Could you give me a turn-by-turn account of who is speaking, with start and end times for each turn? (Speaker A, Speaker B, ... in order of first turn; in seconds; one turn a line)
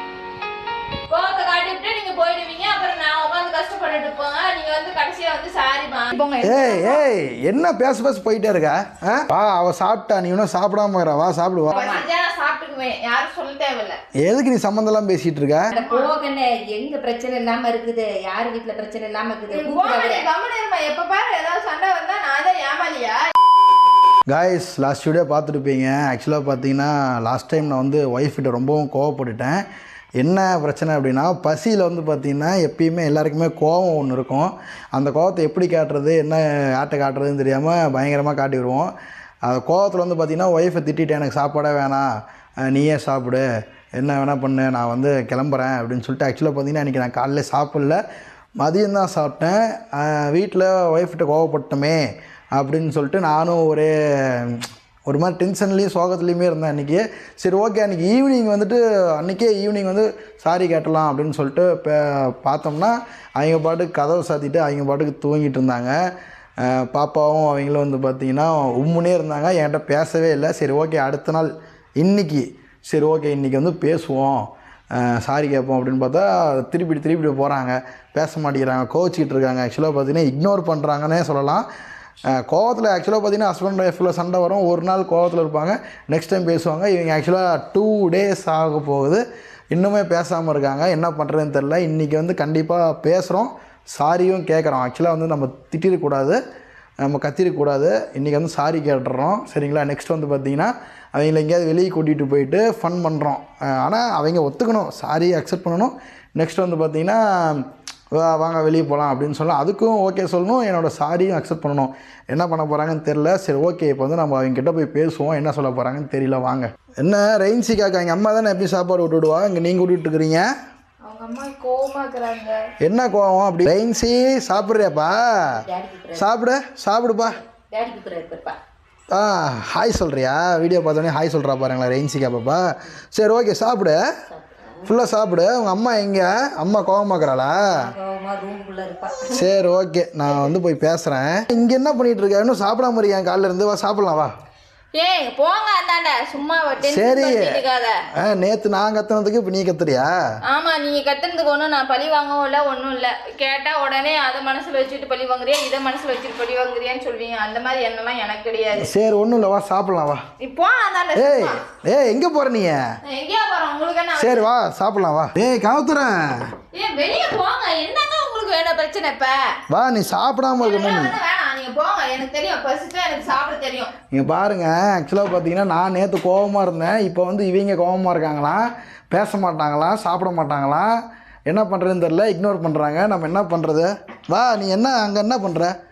Speaker A: 1.1-7.0
Speaker B: 6.4-11.8
Speaker C: 11.7-12.1
Speaker A: 11.7-14.0
Speaker B: 14.2-15.7
Speaker C: 15.7-20.3
Speaker A: 15.8-16.1
Speaker A: 19.5-23.3
Speaker B: 24.3-29.6
Speaker B: 30.2-38.9
Speaker B: 39.5-42.1
Speaker B: 42.7-43.5
Speaker B: 44.0-48.0
Speaker B: 48.6-52.0
Speaker B: 52.5-66.0
Speaker B: 66.6-74.5
Speaker B: 75.0-81.6
Speaker B: 82.3-96.4
Speaker B: 97.0-120.5
Speaker A: 121.1-122.6
Speaker B: 122.8-125.6
Speaker C: 125.5-126.3
Speaker B: 126.1-127.4
Speaker C: 127.5-128.6
Speaker B: 129.1-134.0
Speaker C: 134.3-134.8
Speaker B: 134.8-137.8
Speaker C: 137.8-139.5
Speaker B: 139.3-144.3
Speaker A: 144.9-148.0
Speaker B: 146.8-147.6
Speaker B: 148.2-150.1
Speaker A: 150.5-158.9
Speaker B: 158.7-160.2
Speaker A: 160.4-161.6
Speaker B: 161.1-162.8
Speaker A: 163.1-164.5
Speaker B: 164.2-166.2
Speaker A: 166.7-169.4
Speaker B: 169.7-171.1
Speaker A: 170.6-173.9
Speaker B: 174.1-181.0
Speaker B: 181.5-185.7